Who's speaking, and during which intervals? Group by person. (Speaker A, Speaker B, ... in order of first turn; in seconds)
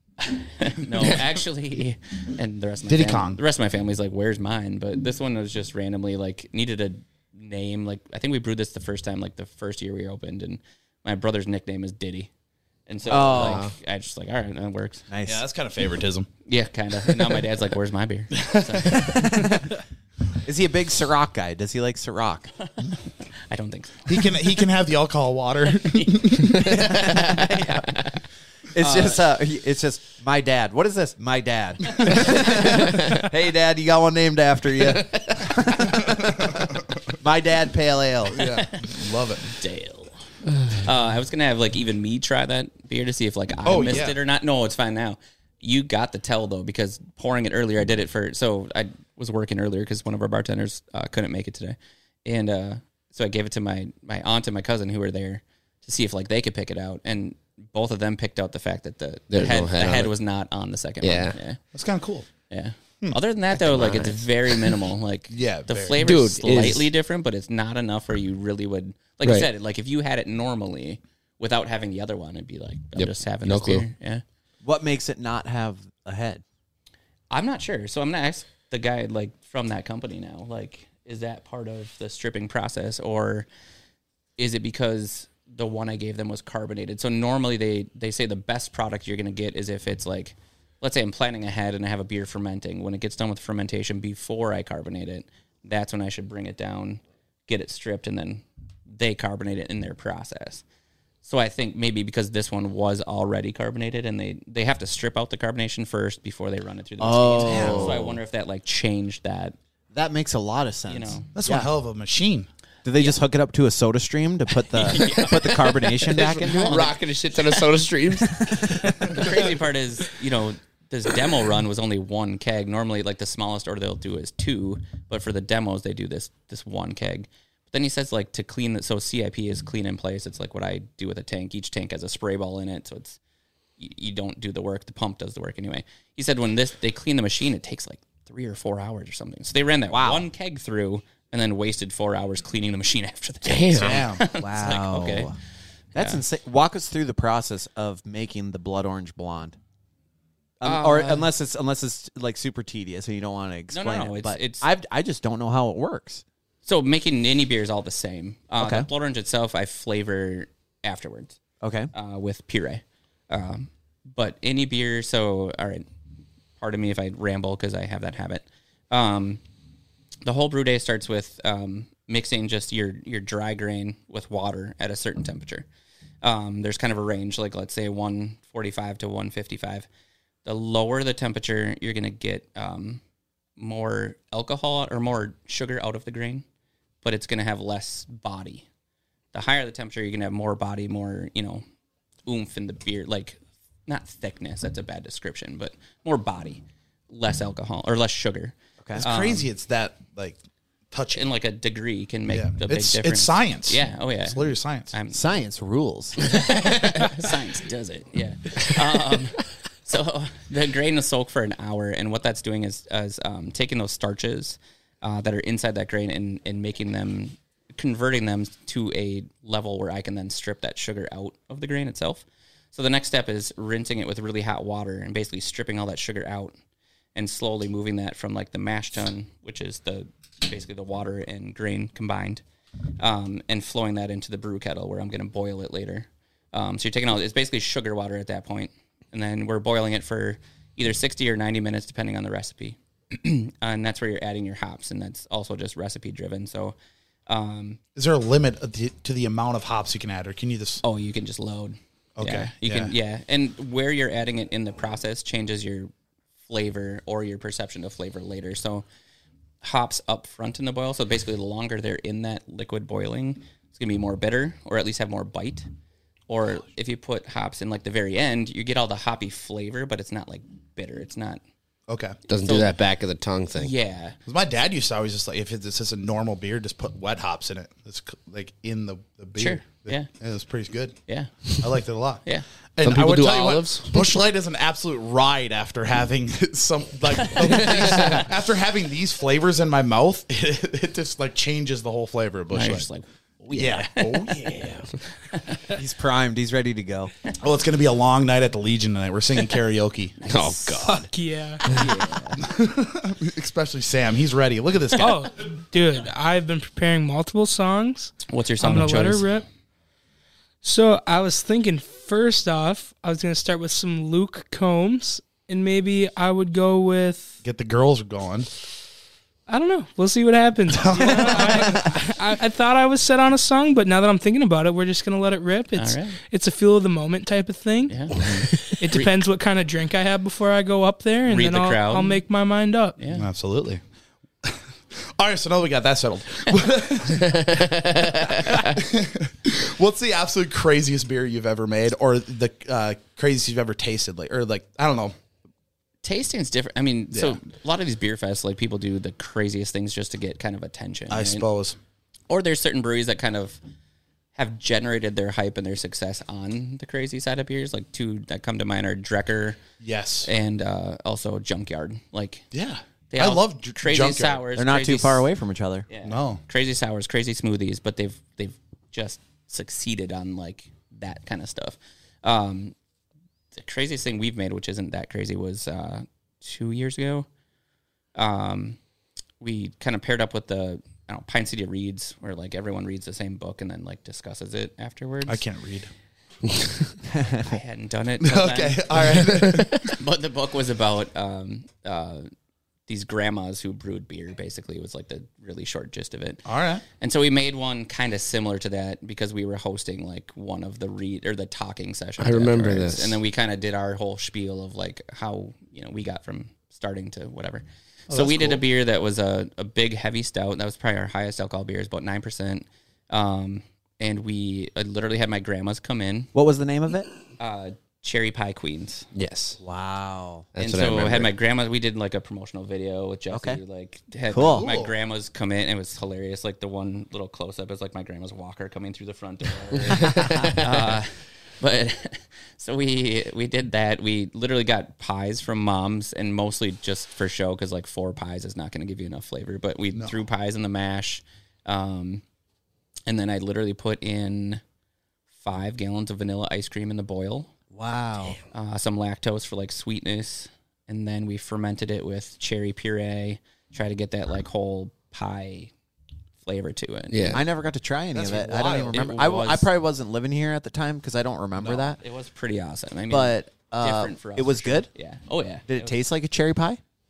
Speaker A: 0.2-12.3, 12.9-15.1, 16.5-19.5, 23.5-24.5, 25.7-28.1, 28.8-29.2, 38.4-40.1, 40.7-61.6, 62.5-74.2, 77.3-83.5, 84.4-98.4, 99.0-100.6, 101.2-109.6, 110.9-111.3, 114.7-117.6, 118.9-133.2, 133.8-145.3, 145.9-146.2, 150.7-151.2, 153.7-154.7, 156.7-161.4, 161.9-165.9, 166.6-169.4, 170.2-175.7, 176.2-179.9, 180.4-183.0, 183.6-186.4, 187.0-188.7, 189.3-191.6, 192.3-199.5, 201.1-205.3, 206.2-226.5, 227.2-232.4, 233.0-246.8, 247.3-247.8, 250.8-255.9, 256.5-258.9, 259.6-265.6, 266.3-271.4, 272.4-272.8, 273.6-274.2, 279.4-280.1, 281.1-281.6, 287.2-288.3, 292.5-295.6, 300.2-300.9, 301.7-302.4, 308.3-309.3, 325.7-326.2, 327.9-329.1, 331.2-332.2, 333.0-333.3, 346.0-351.4, 352.3-353.6, 354.4-359.6, 360.2-362.5, 363.1-365.3, 365.9-372.7, 373.6-377.3, 378.2-378.8, 379.4-385.4, 387.4-392.3, 392.9-396.4, 397.0-416.3, 417.4-419.1, 420.6-442.2, 443.1-444.6, 445.4-447.5, 448.5-455.7, 456.4-457.4, 458.9-459.7, 462.0-465.9
Speaker B: 2.9-3.4, 15.2-16.3, 18.5-19.3, 24.1-26.9, 35.7-36.9, 38.3-39.6, 43.6-44.2, 61.7-62.3, 65.3-66.0, 107.4-108.0, 111.3-112.5, 143.8-144.2, 199.0-200.4, 200.9-201.3, 202.3-204.9, 248.0-250.8, 252.2-252.9, 271.9-272.2, 274.3-281.0, 281.6-282.2, 282.8-292.9, 293.5-294.9, 297.4-300.2, 302.4-305.2, 317.4-318.5, 320.7-321.9, 333.1-333.8, 335.2-345.1, 347.1-347.4, 351.1-351.8, 359.8-360.3, 362.5-364.4, 366.1-366.4, 385.3-385.9, 388.2-390.0, 396.5-396.8, 408.1-408.6, 424.5-424.9, 458.1-459.0, 461.6-461.9
Speaker C: 13.1-13.7, 15.1-15.4, 18.9-19.7, 20.4-22.5, 26.6-27.9, 28.7-36.1, 37.2-38.4, 74.6-76.4, 107.0-108.2, 109.9-111.7, 112.8-116.9, 139.9-140.3, 144.3-145.4, 145.9-149.6, 150.6-156.2, 158.6-158.9, 161.6-161.9, 205.1-206.2, 295.7-297.1, 364.6-365.9, 387.1-387.6, 416.3-417.1, 419.6-420.5, 423.3-423.6, 424.3-424.7, 447.7-448.4, 457.3-462.0, 463.1-464.9, 465.7-466.8
Speaker D: 13.4-13.7, 32.6-33.2, 34.8-35.7, 59.3-60.1, 61.0-61.4, 63.5-64.2, 66.0-66.9, 69.2-69.5, 73.0-73.9, 116.1-119.5, 143.4-144.1, 272.3-273.7, 282.8-284.1, 300.3-301.1, 337.2-338.7, 386.5-386.8, 402.2-403.2, 419.1-419.6, 420.5-421.3, 429.8-430.9, 457.1-457.4
Speaker E: 300.8-301.7, 305.0-309.4, 310.6-317.4, 319.5-328.0, 328.7-333.0